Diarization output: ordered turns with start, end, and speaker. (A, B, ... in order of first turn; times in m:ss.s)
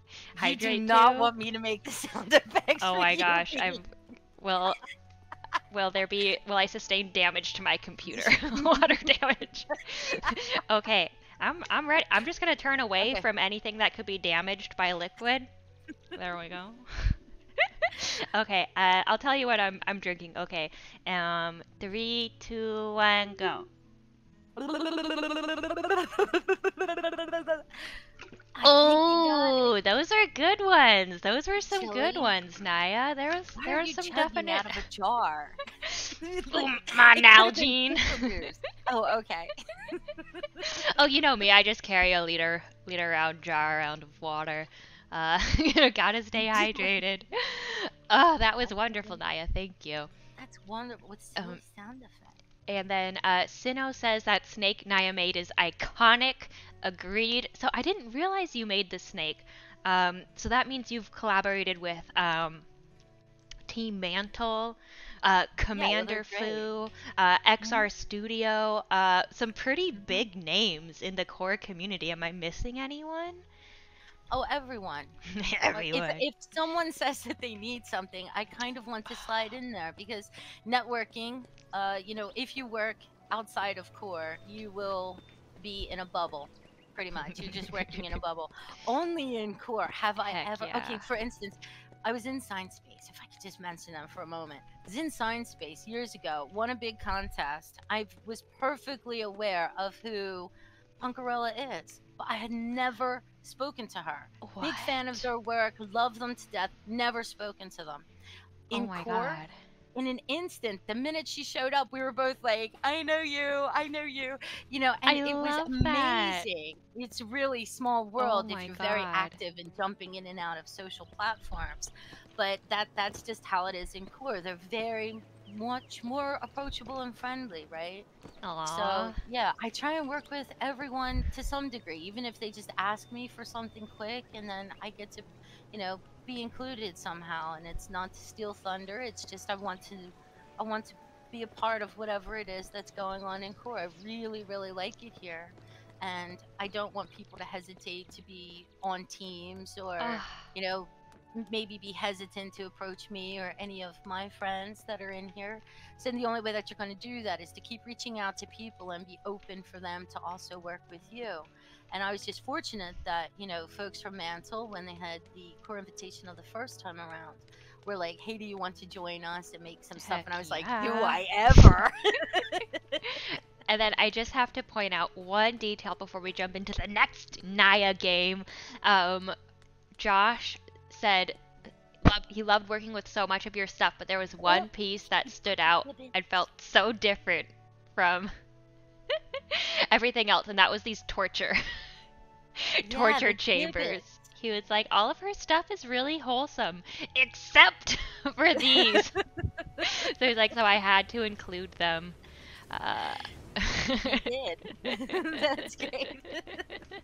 0:00.3-0:01.3 A
0:00.4-0:03.8 B
0:02.8-0:04.8 A
0:05.7-0:15.5 A
0:08.1-0:09.1 B
0:09.7-0:10.4 B
0:13.0-0:13.3 B
0:16.1-0:23.7 A
0:24.6-0:27.7 B
0:28.6-0:29.7 B
0:28.6-0:34.8 A
0:31.7-0:32.4 B
0:33.6-0:40.8 B
0:35.8-0:38.3 A
0:40.6-0:50.1 A
0:46.4-0:46.9 B
0:48.6-0:49.2 B
0:50.4-0:52.4 B
0:51.4-0:51.6 A
0:52.7-1:02.7 A
1:03.7-1:13.4 A
1:05.8-1:06.7 B
1:07.6-1:07.9 B
1:10.0-1:10.2 B
1:14.3-1:15.2 B
1:15.3-1:16.2 A
1:15.7-1:48.1 B
1:27.2-1:28.2 A
1:30.2-1:31.1 A
1:44.4-1:45.3 A
1:48.7-1:49.4 B
1:48.7-1:49.5 A
1:50.0-2:08.1 B
1:55.1-1:56.5 A
1:58.2-1:59.4 A
2:08.4-2:09.2 A
2:08.6-2:53.0 B
2:30.0-2:30.5 A
2:50.0-2:51.8 A
2:53.0-2:59.3 A
3:00.0-3:01.4 A
3:02.0-3:08.3 A
3:05.7-3:06.2 B
3:09.5-3:11.6 A
3:12.6-3:19.2 A
3:12.8-3:14.2 B
3:18.6-3:19.8 B
3:19.8-3:22.2 A
3:22.7-3:24.3 A
3:24.0-3:26.6 B
3:24.8-3:25.9 A